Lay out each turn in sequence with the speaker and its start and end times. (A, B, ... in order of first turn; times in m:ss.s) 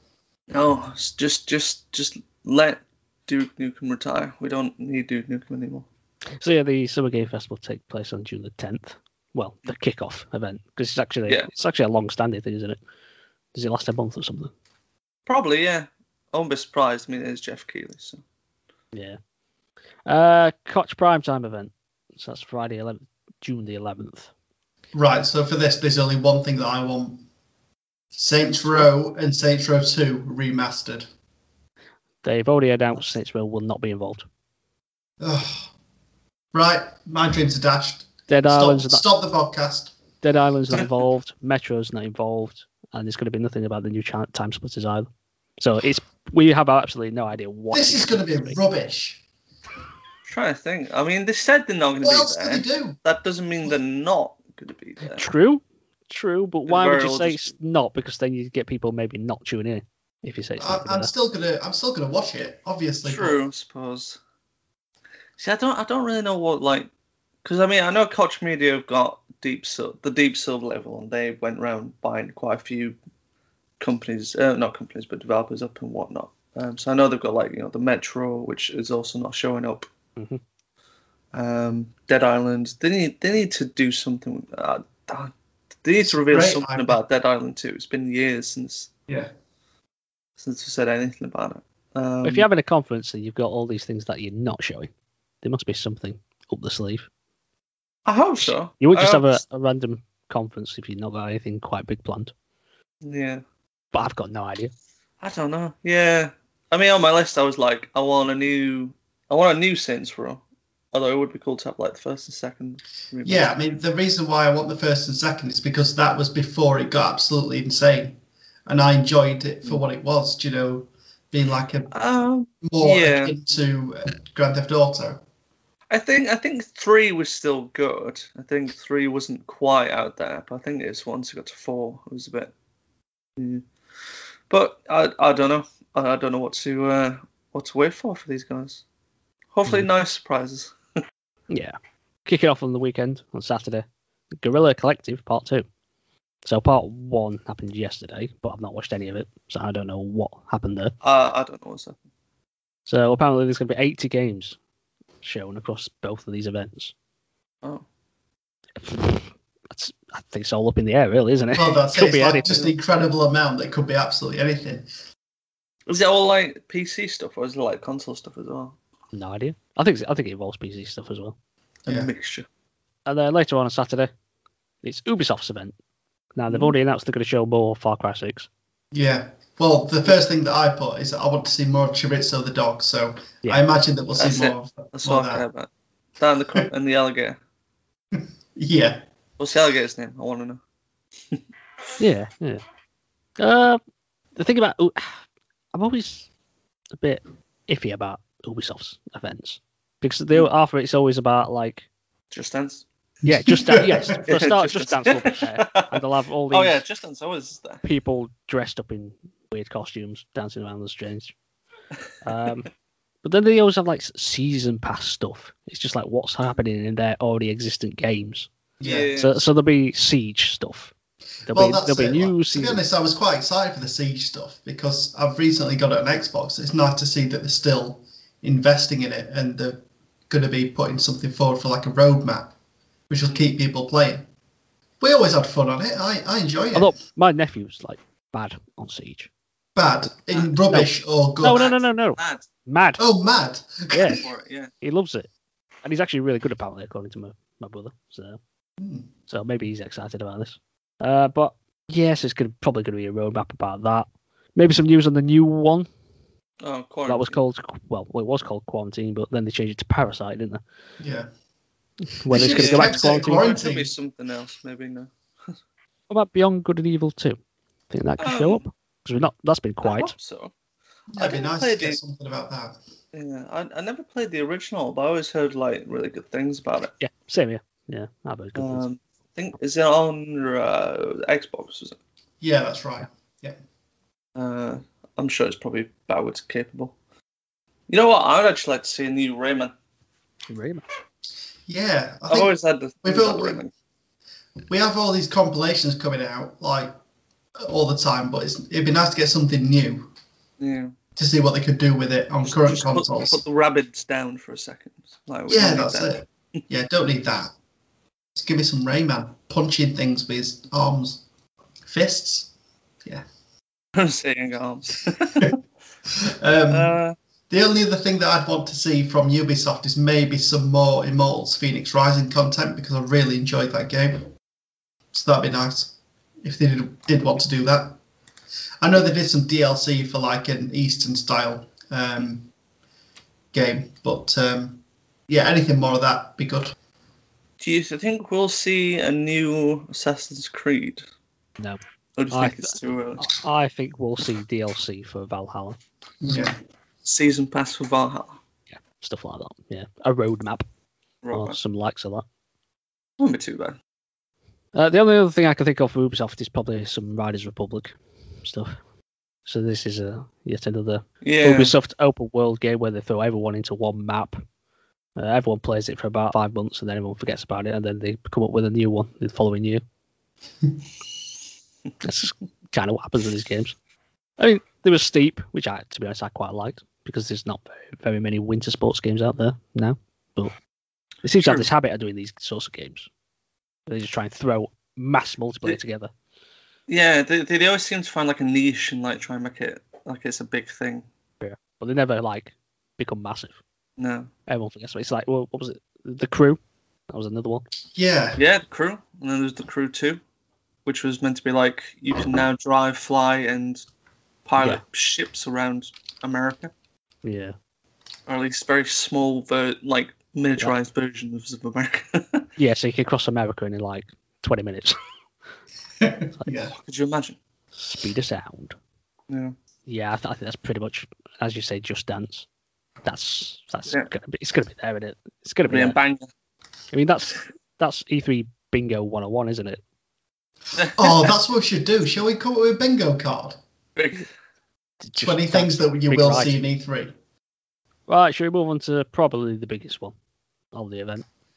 0:00.5-0:05.9 A
0:06.4-0:12.8 B
0:13.5-0:14.5 B
0:15.3-0:18.2 A
0:18.9-0:19.2 B
0:20.0-0:24.3 B
0:24.9-0:27.2 C
0:28.1-0:31.0 C
0:32.2-0:34.3 B
0:35.2-0:35.7 C
0:36.5-0:40.0 C
0:38.3-0:39.0 B
0:40.2-0:45.1 B
0:45.6-0:48.6 B
0:47.7-0:49.2 C
0:50.2-0:55.2 A
0:52.0-0:53.0 C
0:55.1-1:01.1 B
0:56.7-0:57.5 A
1:00.6-1:03.4 C
1:03.0-1:04.2 A
1:05.4-1:06.9 A
1:07.4-1:13.0 A
1:13.8-1:19.9 A
1:21.3-1:25.3 A
1:25.8-1:28.9 A
1:26.0-1:27.0 C
1:30.4-1:32.5 A
1:32.2-1:34.9 B
1:35.4-1:37.1 B
1:38.0-1:39.4 A
1:38.4-1:42.3 B
1:43.0-1:43.4 A
1:43.9-1:44.7 B
1:45.2-1:50.4 A
1:50.9-1:53.5 A
1:53.2-2:01.9 C
2:01.9-2:03.4 A
2:02.6-2:05.2 C
2:05.9-2:12.5 A
2:13.4-2:13.6 A
2:14.5-2:18.8 A
2:19.5-2:20.7 A
2:21.5-2:25.6 B
2:26.4-2:30.9 B
2:31.0-2:32.0 A
2:32.9-2:34.6 B
2:35.2-2:36.9 B
2:38.8-2:42.5 B
2:41.5-2:44.9 C
2:42.4-2:42.7 A
2:45.9-2:48.8 A
2:49.1-2:51.3 B
2:51.8-2:52.5 A
2:53.0-2:54.1 B
2:54.8-2:55.7 B
2:56.4-2:58.5 B
2:56.5-2:56.7 A
2:58.9-3:05.4 C
3:04.2-3:07.4 A
3:08.1-3:09.0 C
3:09.4-3:10.6 A
3:12.0-3:12.6 B
3:13.4-3:13.8 B
3:14.4-3:15.2 B
3:15.7-3:16.3 B
3:17.0-3:21.9 B
3:22.3-3:22.8 A
3:23.2-3:24.3 C
3:23.2-3:26.8 B
3:24.2-3:27.8 A
3:27.8-3:31.3 B
3:32.2-3:32.7 B
3:33.2-3:38.5 B
3:38.8-3:39.1 C
3:38.8-3:39.4 A
3:39.2-3:40.9 B
3:41.4-3:52.5 C
3:41.5-3:42.8 B
3:53.1-3:54.2 C
3:55.0-3:57.0 C
3:56.7-3:59.3 B
3:59.8-4:01.6 C
4:01.4-4:03.0 B
4:01.5-4:02.5 A
4:03.0-4:04.2 C
4:03.9-4:04.2 B
4:04.0-4:04.7 A
4:04.8-4:05.3 B
4:05.8-4:08.4 B
4:08.8-4:09.1 C
4:09.3-4:15.9 B
4:16.6-4:17.4 A
4:17.1-4:20.6 B
4:21.0-4:21.3 C
4:22.2-4:23.5 B
4:22.3-4:23.9 C
4:22.3-4:25.5 A
4:26.1-4:27.4 B
4:27.9-4:30.1 B
4:28.2-4:28.6 A
4:29.8-4:30.5 A
4:31.1-4:32.8 C
4:31.2-4:32.0 A
4:33.1-4:36.9 A
4:37.0-4:38.8 B
4:38.6-4:42.0 A
4:42.4-4:43.6 C
4:44.4-4:46.9 A
4:47.9-4:49.7 A
4:50.5-4:50.8 B
4:51.7-4:53.6 C
4:52.3-4:53.7 A
4:54.7-4:57.0 C
4:57.6-5:00.1 C
5:00.6-5:00.9 A
5:01.2-5:03.4 C
5:02.4-5:06.6 A
5:05.5-5:07.5 C
5:08.4-5:11.2 C
5:11.8-5:12.5 C
5:13.9-5:15.6 A
5:16.2-5:17.0 C
5:16.7-5:17.1 A
5:17.5-5:24.3 C
5:25.1-5:28.0 C
5:28.8-5:32.5 C
5:33.5-5:36.7 C
5:37.6-5:41.0 A
5:42.2-5:43.3 A
5:42.3-5:45.8 B
5:46.2-5:46.5 C
5:47.0-5:48.4 A
5:48.7-5:50.6 B
5:51.2-5:51.6 A
5:51.3-5:52.2 B
5:53.2-5:53.8 A
5:54.7-5:58.8 B
5:59.4-6:04.4 B
6:01.2-6:01.7 A
6:05.2-6:09.8 B
6:12.0-6:13.7 B
6:14.4-6:20.5 B
6:21.2-6:23.1 B
6:21.4-6:21.7 A
6:23.9-6:26.1 B
6:26.9-6:31.0 A
6:31.4-6:33.6 B
6:34.0-6:34.3 A
6:34.5-6:37.6 B
6:37.9-6:38.4 C
6:38.4-6:40.2 A
6:40.8-6:43.8 A
6:44.4-6:46.7 A
6:47.2-6:47.5 B
6:48.3-6:52.5 A
6:52.6-6:55.0 B
6:56.0-6:56.7 C
6:56.7-6:57.4 A
6:57.7-6:58.7 B
6:59.3-6:59.6 A
6:59.9-7:02.4 B
7:03.0-7:06.0 B
7:05.7-7:06.3 A
7:06.9-7:09.8 B
7:10.8-7:11.3 A
7:11.0-7:13.6 C
7:14.0-7:14.3 A
7:15.0-7:16.6 B
7:15.2-7:17.1 C
7:18.1-7:20.1 B
7:20.7-7:21.2 B